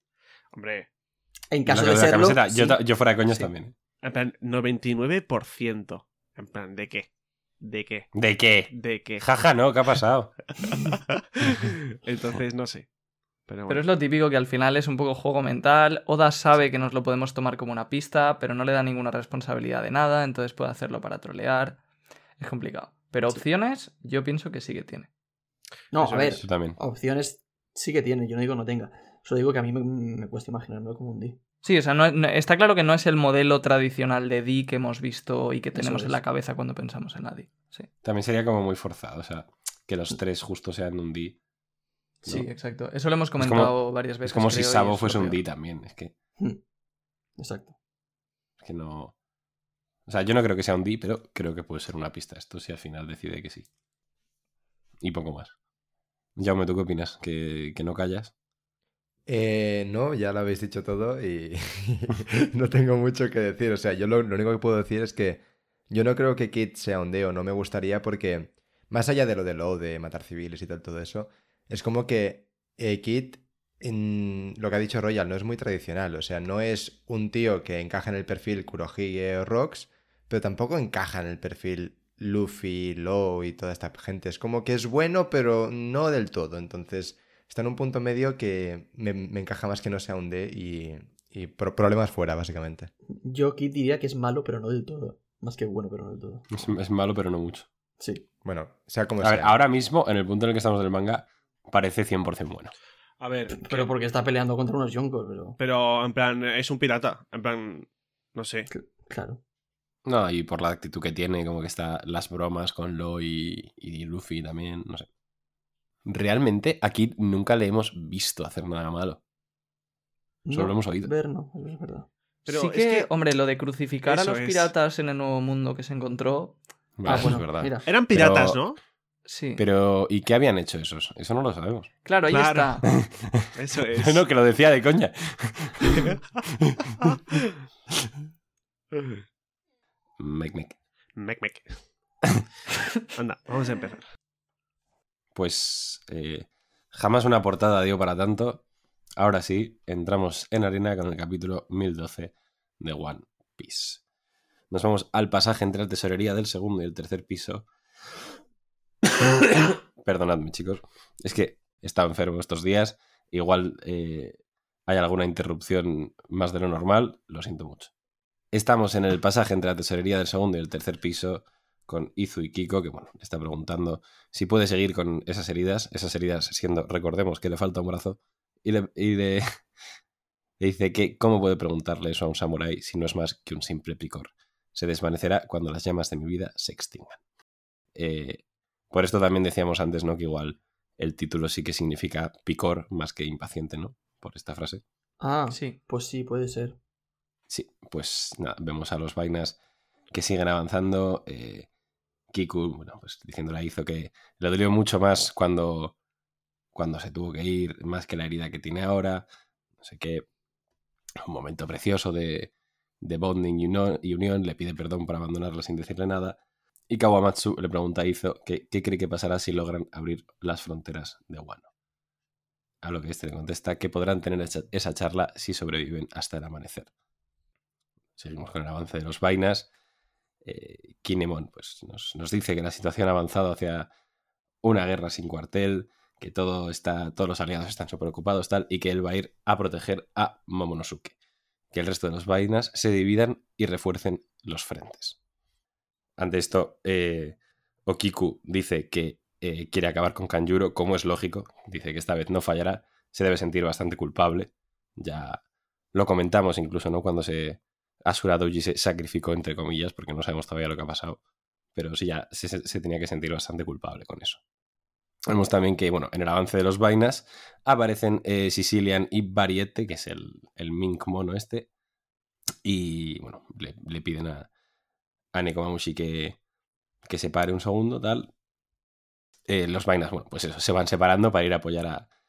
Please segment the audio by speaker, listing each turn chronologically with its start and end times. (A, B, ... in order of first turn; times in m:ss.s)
0:00.5-0:00.9 A
0:01.5-0:02.8 B
0:01.7-0:03.7 C
0:04.0-0:07.1 A
0:07.6-0:08.1 A
0:08.1-0:10.3 C
0:08.7-0:09.2 A
0:10.8-0:12.9 A
0:13.5-0:13.8 A
0:13.7-0:21.8 D
0:22.4-0:25.1 D
0:25.9-0:31.4 B
0:26.0-0:26.4 A
0:26.4-0:26.8 C
0:31.6-0:37.9 D
0:35.7-0:36.2 B
0:38.0-0:41.4 C
0:42.2-0:45.4 D
0:43.4-0:46.1 C
0:47.4-0:47.7 B
0:48.6-0:49.1 C
0:50.1-0:53.7 C
0:55.0-0:55.5 C
0:56.4-0:58.3 C
0:59.3-1:32.9 E
1:33.2-1:36.5 B
1:36.5-1:37.6 C
1:38.0-1:38.2 B
1:38.4-1:39.5 E
1:39.2-1:42.7 C
1:43.2-1:43.9 A
1:43.5-1:45.6 B
1:45.6-1:48.7 A
1:48.7-1:49.4 B
1:50.0-1:55.1 C
1:56.0-1:59.2 C
2:00.4-2:02.1 B
2:00.5-2:01.1 C
2:02.4-2:03.1 A
2:02.5-2:06.6 D
2:04.0-2:04.7 A
2:07.0-2:08.6 C
2:07.0-2:07.9 B
2:07.8-2:08.8 A
2:09.2-2:09.6 D
2:09.6-2:11.9 C
2:12.0-2:12.8 D
2:12.3-2:12.8 A
2:12.8-2:17.1 C
2:13.5-2:14.2 A
2:20.2-2:20.8 C
2:21.1-2:21.8 A
2:23.1-2:24.0 A
2:25.3-2:28.6 C
2:29.2-2:34.0 C
2:34.7-2:37.7 C
2:39.0-2:44.4 C
2:44.9-2:47.9 C
2:48.5-2:59.4 C
3:00.6-3:07.2 C
3:08.0-3:14.8 C
3:15.2-3:16.8 B
3:15.5-3:15.8 D
3:17.5-3:19.6 C
3:20.1-3:21.7 C
3:22.3-3:25.9 C
3:26.7-3:29.2 C
3:29.8-3:30.2 C
3:31.2-3:32.5 C
3:33.0-3:36.4 C
3:36.9-3:41.7 C
3:42.8-3:46.9 C
3:48.2-3:49.7 C
3:50.4-3:53.9 C
3:54.6-4:01.1 C
4:01.7-4:05.2 C
4:06.2-4:15.4 C
4:15.9-4:21.2 C
4:21.7-4:24.4 C
4:25.3-4:31.7 C
4:32.6-4:34.5 C
4:35.3-4:36.4 C
4:37.0-4:38.3 C
4:39.5-4:42.1 C